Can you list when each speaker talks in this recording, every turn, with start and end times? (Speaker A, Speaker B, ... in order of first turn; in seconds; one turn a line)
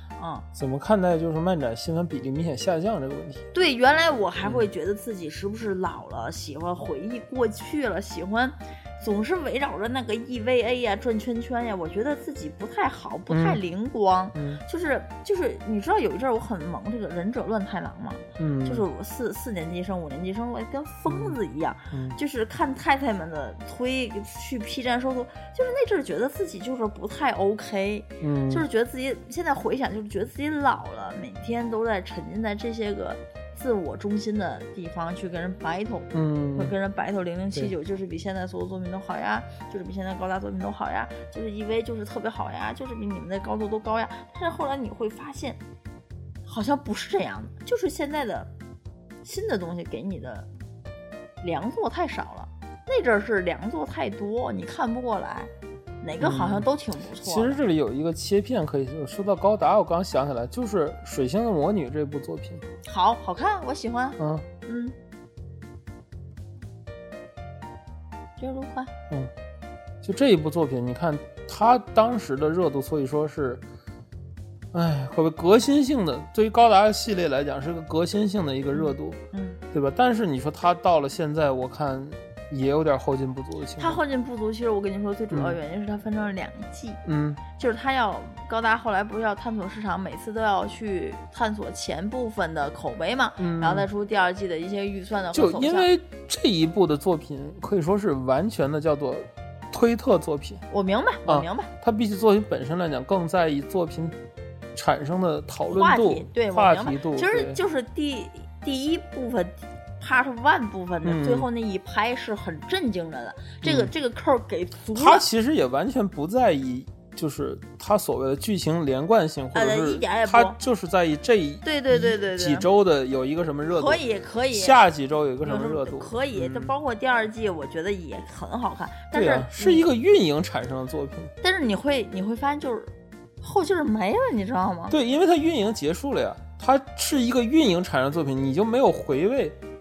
Speaker A: 0.2-0.5
Speaker B: 0.5-3.4
Speaker A: 3.5-45.6
Speaker B: 4.4-4.7
Speaker B: 13.3-13.6
Speaker B: 14.3-14.6
Speaker B: 18.4-18.9
Speaker B: 21.1-21.4
Speaker B: 21.9-22.2
Speaker B: 28.2-28.7
Speaker B: 36.1-36.7
Speaker A: 46.5-48.5
Speaker A: 49.2-50.5
Speaker A: 51.4-57.6
Speaker B: 56.2-56.7
Speaker B: 57.2-62.6
Speaker A: 62.8-64.9
Speaker B: 64.2-64.5
Speaker A: 68.4-68.9
Speaker B: 70.0-73.6
Speaker B: 74.7-79.2
Speaker A: 78.7-79.6
Speaker B: 79.7-84.0
Speaker A: 83.8-87.0
Speaker B: 85.3-85.6
Speaker B: 87.0-87.4
Speaker A: 87.5-95.9
Speaker B: 93.4-93.9
Speaker B: 95.3-100.6
Speaker A: 100.7-101.7
Speaker B: 101.2-104.2
Speaker B: 104.7-107.6
Speaker A: 105.6-115.3
Speaker B: 111.0-111.5
Speaker B: 113.6-113.9
Speaker B: 114.9-126.7
Speaker A: 119.5-120.6
Speaker A: 121.6-122.7
Speaker A: 123.7-124.9
Speaker A: 125.4-129.9
Speaker B: 129.1-131.3
Speaker A: 131.4-135.0
Speaker B: 134.9-139.6